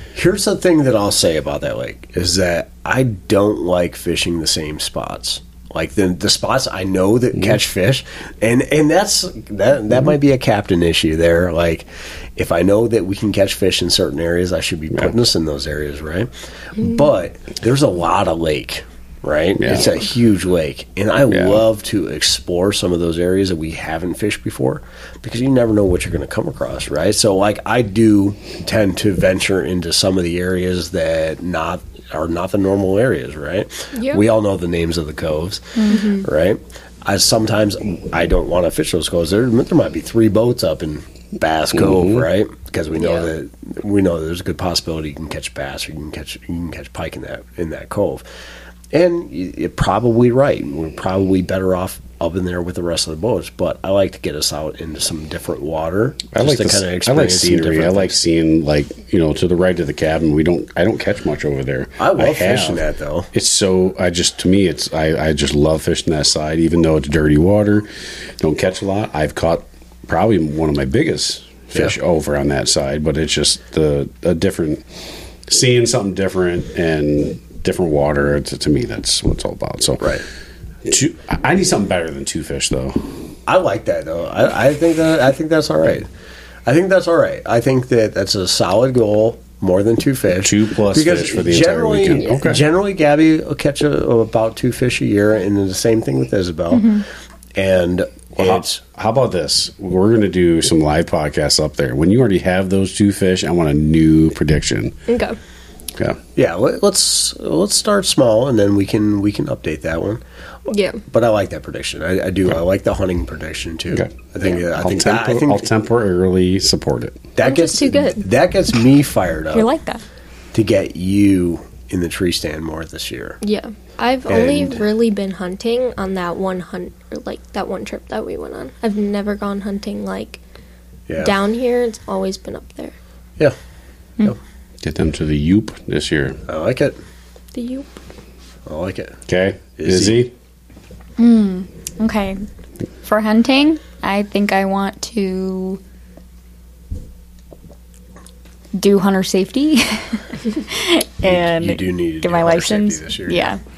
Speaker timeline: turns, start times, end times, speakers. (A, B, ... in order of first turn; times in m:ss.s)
0:00.1-0:48.2 A
0:19.6-0:20.0 B
0:21.3-0:21.6 B
0:33.9-0:34.2 C
0:35.8-0:36.2 C
0:41.8-0:42.2 B
0:43.0-0:43.3 C
0:48.9-0:58.2 A
0:56.3-1:07.9 B
1:02.0-1:03.3 A
1:08.4-1:14.8 B
1:15.5-1:20.2 B
1:20.8-1:23.0 B
1:23.5-1:26.1 A
1:26.6-1:37.0 A
1:30.4-1:32.6 B
1:36.7-1:37.0 D
1:37.6-1:38.8 A
1:38.4-1:45.0 B
1:45.1-1:45.4 C
1:46.4-1:50.2 A
1:50.7-1:51.0 C
1:51.1-1:55.7 A
1:54.7-1:57.3 B
1:57.4-1:59.7 A
1:57.4-1:58.2 C
1:59.5-2:00.0 D
2:00.5-2:03.4 A
2:03.4-2:10.4 C
2:04.3-2:04.8 A
2:11.1-2:11.4 A
2:11.2-2:12.9 C
2:14.8-2:16.4 B
2:16.5-2:17.0 A
2:17.5-2:17.9 C
2:18.6-2:19.2 A
2:19.3-2:20.3 B
2:19.8-2:20.2 A
2:21.2-2:22.4 D
2:23.0-2:25.8 D
2:28.7-2:33.6 D
2:31.2-2:33.5 A